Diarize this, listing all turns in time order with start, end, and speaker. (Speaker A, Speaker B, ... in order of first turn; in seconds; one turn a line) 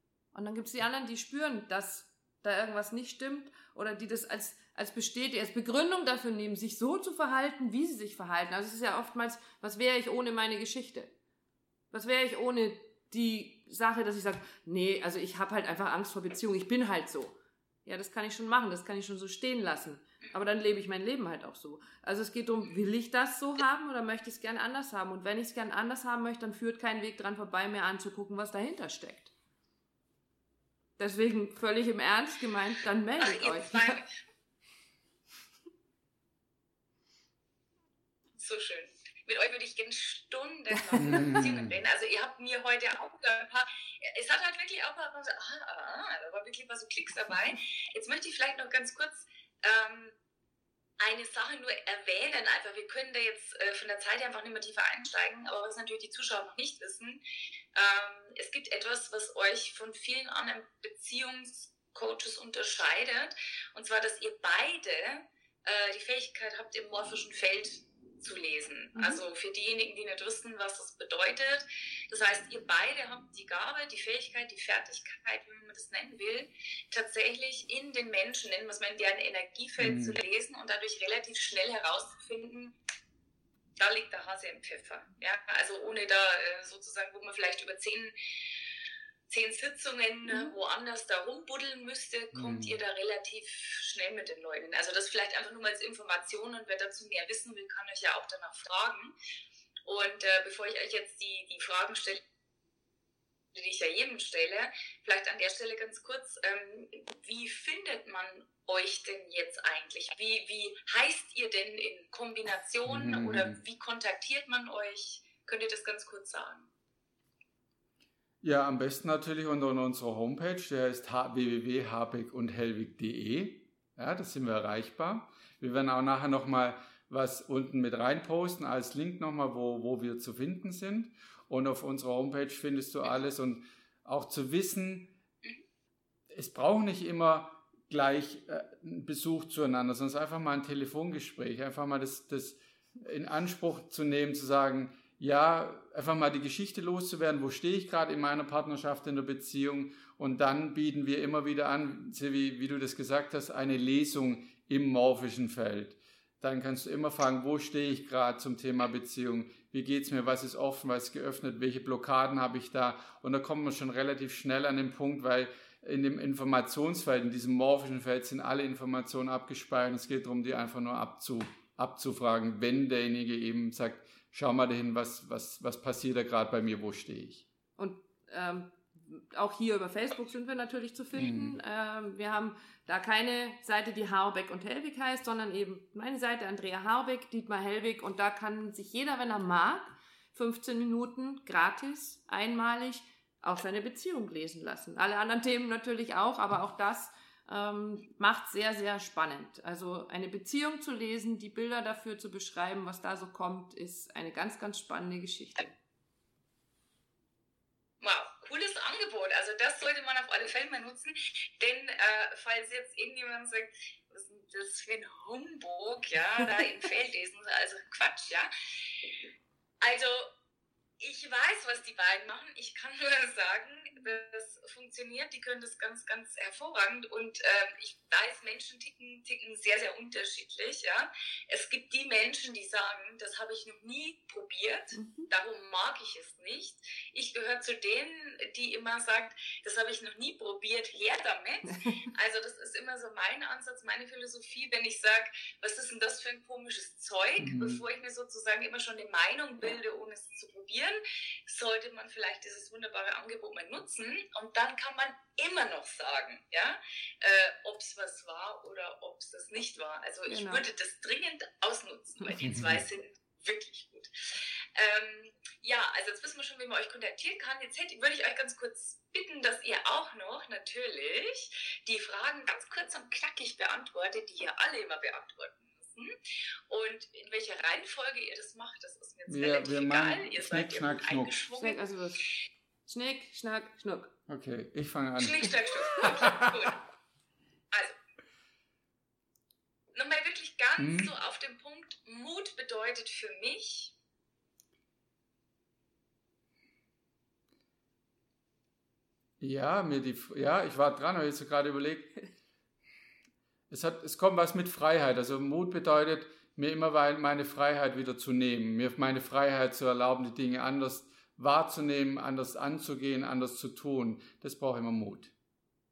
Speaker A: 0.3-11.1
Speaker A: 11.9-29.3
Speaker A: 31.0-34.0
Speaker B: 33.2-34.1
Speaker B: 38.4-50.1
Speaker C: 41.0-41.8
Speaker B: 51.0-57.2
Speaker B: 57.7-82.7
Speaker A: 68.9-69.2
Speaker C: 79.8-80.2
Speaker B: 83.8-88.1
Speaker B: 89.3-99.1
Speaker C: 92.3-92.8
Speaker B: 99.8-102.2
Speaker B: 103.5-116.7
Speaker C: 112.9-113.6
Speaker C: 118.4-135.1
Speaker C: 136.3-177.4
Speaker A: 177.8-205.7
Speaker C: 181.2-181.6
Speaker B: 208.0-218.9
Speaker B: 219.8-220.3
Speaker B: 221.0-276.1
Speaker A: 234.9-235.3
Speaker A: 241.7-242.0
Speaker C: 247.4-247.8
Speaker A: 260.3-260.6
Speaker C: 262.4-262.8
Speaker B: 276.7-281.9
Speaker C: 279.3-281.5
Speaker A: 281.6-282.3
Speaker A: 282.9-284.1
Speaker C: 284.3-286.6
Speaker B: 285.2-286.8
Speaker B: 289.9-293.9
Speaker C: 290.8-291.1
Speaker C: 299.4-302.2
Speaker C: 303.7-315.3